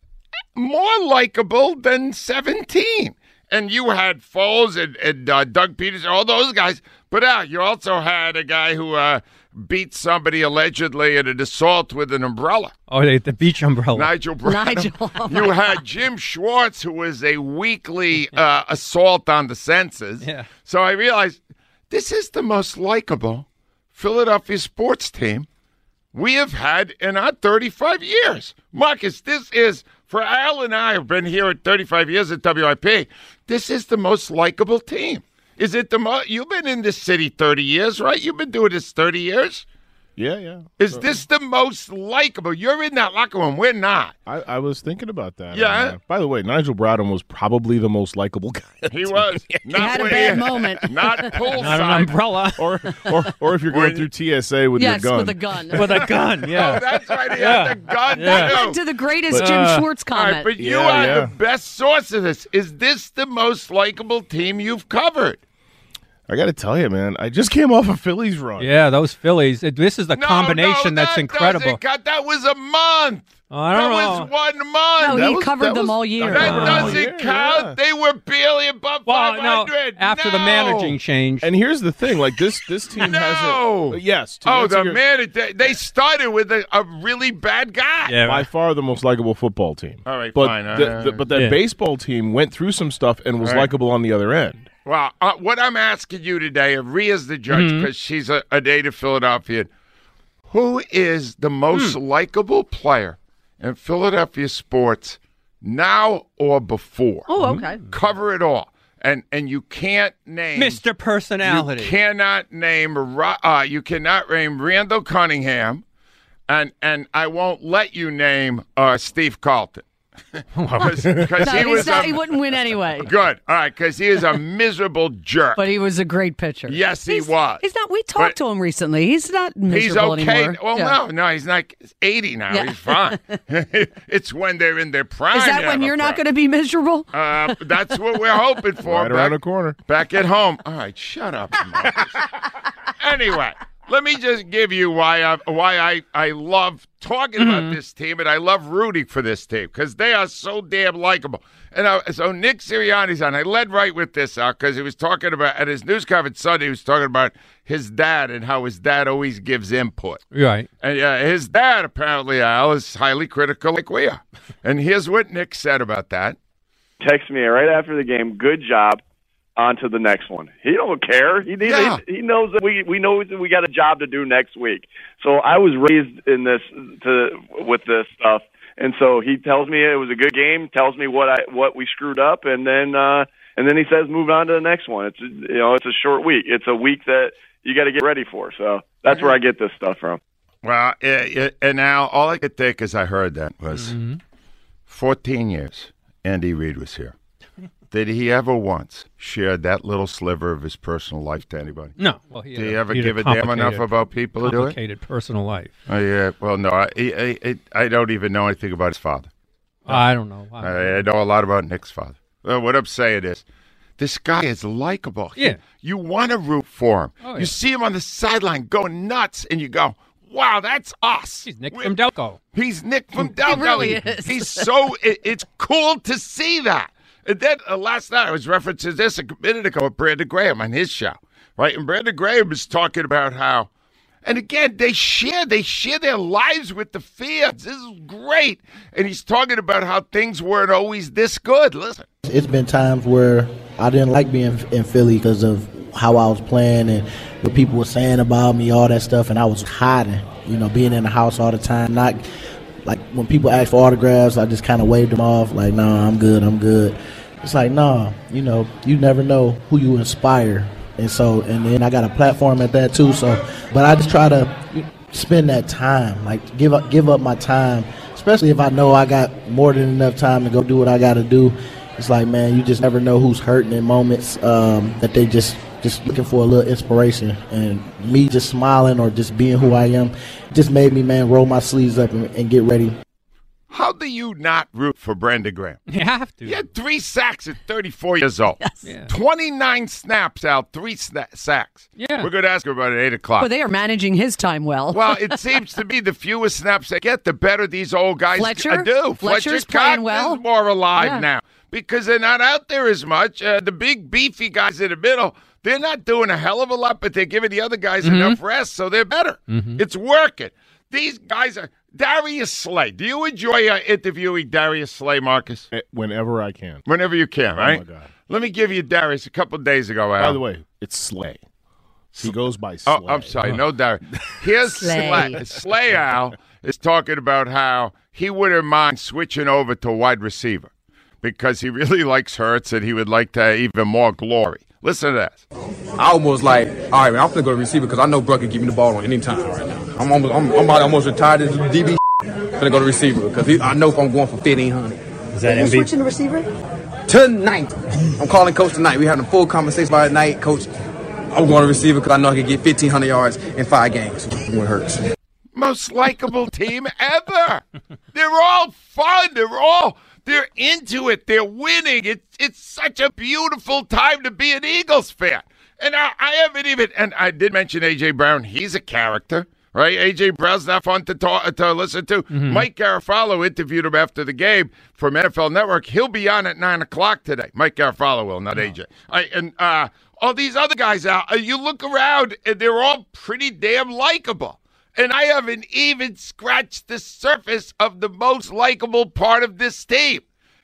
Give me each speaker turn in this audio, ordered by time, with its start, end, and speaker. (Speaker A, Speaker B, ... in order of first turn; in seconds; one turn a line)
Speaker A: 0.6-12.8
Speaker B: 12.9-14.1
Speaker A: 13.9-25.5
Speaker C: 14.4-15.8
Speaker B: 20.2-20.5
Speaker A: 26.1-39.7
Speaker D: 40.2-41.1
Speaker A: 40.8-44.1
Speaker D: 44.3-51.4
Speaker A: 45.5-46.0
Speaker A: 48.9-52.1
Speaker C: 49.7-50.9
Speaker B: 51.6-52.8
Speaker D: 52.6-55.8
Speaker A: 53.7-54.1
Speaker C: 54.8-56.1
Speaker B: 55.8-58.6
Speaker A: 56.4-58.8
Speaker C: 58.2-61.1
Speaker B: 59.3-59.9
Speaker A: 60.1-65.4
Speaker D: 60.6-61.3
Speaker D: 66.3-68.7
Speaker B: 68.6-71.8
Speaker A: 70.2-81.0
Speaker B: 73.5-74.3
Speaker C: 75.0-76.9
Speaker D: 75.1-77.7
Speaker B: 76.3-77.0
Speaker B: 79.1-81.5
Speaker D: 81.4-85.0
Speaker A: 83.0-88.2
Speaker B: 88.0-88.5
Speaker D: 88.2-94.7
Speaker A: 90.1-91.3
Speaker B: 91.3-91.6
Speaker A: 93.4-93.7
Speaker A: 94.8-99.7
Speaker B: 97.5-97.9
Speaker A: 100.5-107.3
Speaker C: 107.3-107.8
Speaker B: 107.4-107.8
Speaker A: 107.9-110.8
Speaker B: 110.6-111.9
Speaker A: 111.4-115.8
Speaker A: 116.5-122.5
Speaker B: 120.6-121.2
Speaker D: 121.1-121.6
Speaker C: 121.4-123.1
Speaker A: 123.0-125.6
Speaker C: 125.6-131.0
Speaker A: 126.7-127.6
Speaker A: 129.7-136.2
Speaker C: 132.5-133.4
Speaker C: 135.3-137.6
Speaker A: 137.1-142.3
Speaker D: 138.8-139.8
Speaker A: 143.0-160.2
Speaker B: 147.4-147.8
Speaker B: 160.3-160.7
Speaker A: 160.8-166.4
Speaker E: 167.0-169.0
Speaker E: 169.6-190.2
Speaker A: 171.6-172.0
Speaker A: 190.6-194.0
Speaker B: 193.7-194.2
Speaker A: 194.9-197.2
Speaker A: 197.9-201.9
Speaker B: 202.0-203.9
Speaker A: 202.5-204.8
Speaker B: 204.4-205.7
Speaker A: 205.9-209.3
Speaker B: 209.9-211.0
Speaker A: 210.6-213.4
Speaker A: 214.0-222.0
Speaker B: 217.2-217.5
Speaker B: 221.5-222.4
Speaker A: 222.5-233.7
Speaker C: 223.2-224.7
Speaker A: 234.2-242.1
Speaker F: 242.2-252.2
Speaker F: 252.8-283.0
Speaker A: 283.7-285.8
Speaker B: 285.9-286.6
Speaker A: 286.4-293.5
Speaker C: 288.6-288.9
Speaker B: 292.0-292.3
Speaker C: 293.4-295.5
Speaker A: 294.9-315.7
Speaker C: 298.3-300.4
Speaker C: 301.0-301.2
Speaker B: 308.0-308.4
Speaker B: 309.5-309.8
Speaker D: 315.7-316.8
Speaker A: 316.9-320.4
Speaker D: 317.6-318.1
Speaker D: 320.2-321.4
Speaker A: 322.1-330.7
Speaker D: 322.2-323.3
Speaker C: 324.7-325.5
Speaker A: 331.2-335.4
Speaker G: 336.0-342.0
Speaker G: 342.6-345.0
Speaker B: 345.4-345.9
Speaker G: 347.1-350.7
Speaker G: 351.3-355.0
Speaker A: 355.5-390.2
Speaker B: 372.3-372.6